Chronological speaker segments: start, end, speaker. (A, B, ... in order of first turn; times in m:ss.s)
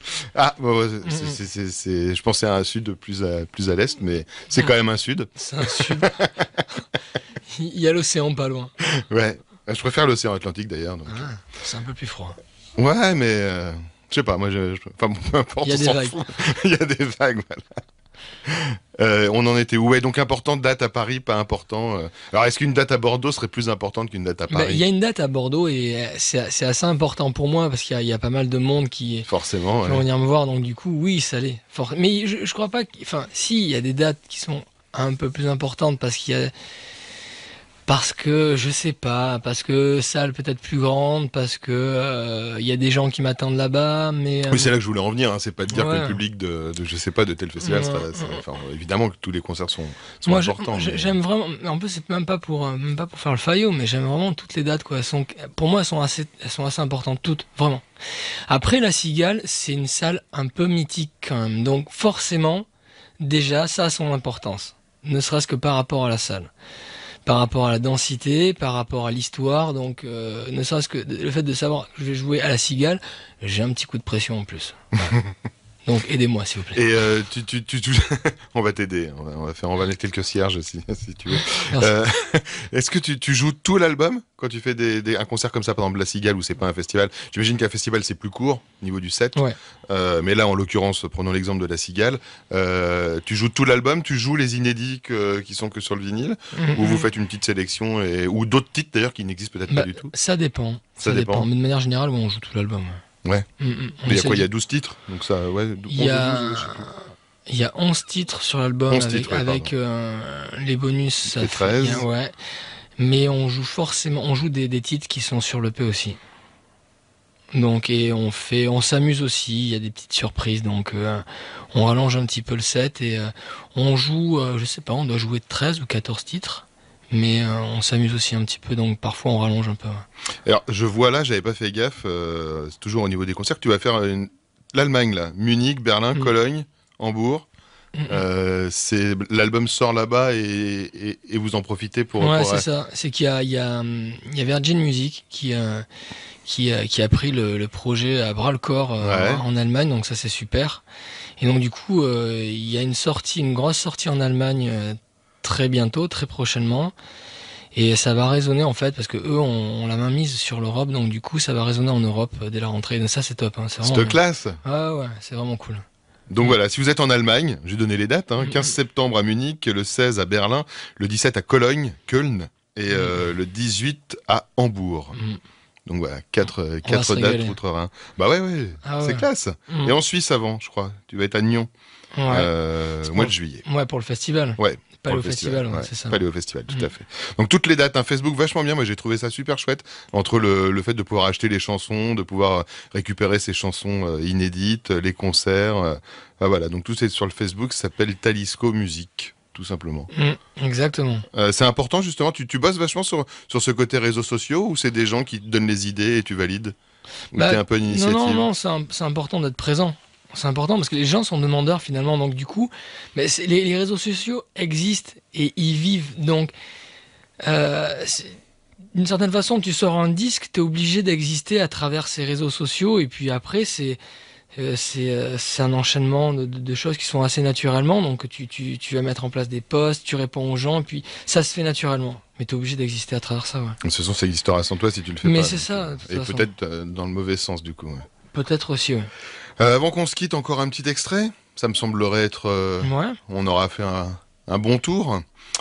0:00.2-0:06.4 A
0:01.0-0:01.4 B
0:05.4-0:06.1 B
0:07.5-0:08.7 B
0:08.8-0:11.3 A
0:11.1-0:12.4 B
0:12.8-0:17.8 A
0:15.6-0:16.2 B
0:18.4-0:24.8 A
0:24.5-0:29.3 B
0:29.3-0:30.1 A
0:29.8-0:36.5 B
0:37.8-0:44.7 B
0:44.5-0:51.1 A
0:45.7-0:46.2 B
0:47.6-0:48.4 B
0:50.2-1:02.6 B
1:03.2-1:06.5 B
1:07.2-1:15.1 B
1:15.8-1:16.8 B
1:16.7-1:40.1 A
1:36.5-1:37.0 B
1:39.7-1:43.0 B
1:41.0-1:41.5 A
1:43.6-1:44.4 B
1:44.1-1:46.8 A
1:45.9-1:52.3 B
1:48.9-1:49.7 A
1:51.3-1:52.0 A
1:53.0-1:56.2 B
1:57.5-2:10.0 B
2:10.4-2:17.4 A
2:18.0-2:18.2 B
2:18.1-2:22.6 A
2:22.2-2:25.9 B
2:26.4-2:30.8 B
2:29.0-2:29.4 A
2:31.4-2:36.9 B
2:37.7-2:45.8 B
2:43.8-2:44.6 A
2:46.3-2:55.2 A
2:48.4-2:48.7 B
2:52.9-2:53.2 B
2:55.1-2:55.4 B
2:55.9-3:01.7 A
2:56.8-2:57.6 B
2:58.8-2:59.9 B
3:02.1-3:02.5 B
3:02.3-3:03.6 A
3:03.0-3:06.9 B
3:04.6-3:20.1 A
3:20.1-3:21.2 B
3:21.3-3:26.7 A
3:27.3-3:28.4 A
3:27.3-3:36.5 B
3:37.4-3:38.4 B
3:38.9-3:44.0 B
3:44.5-3:53.8 B
3:53.8-3:58.0 A
3:55.2-3:56.4 B
3:58.3-3:59.1 B
3:59.6-4:05.2 A
4:02.8-4:03.2 B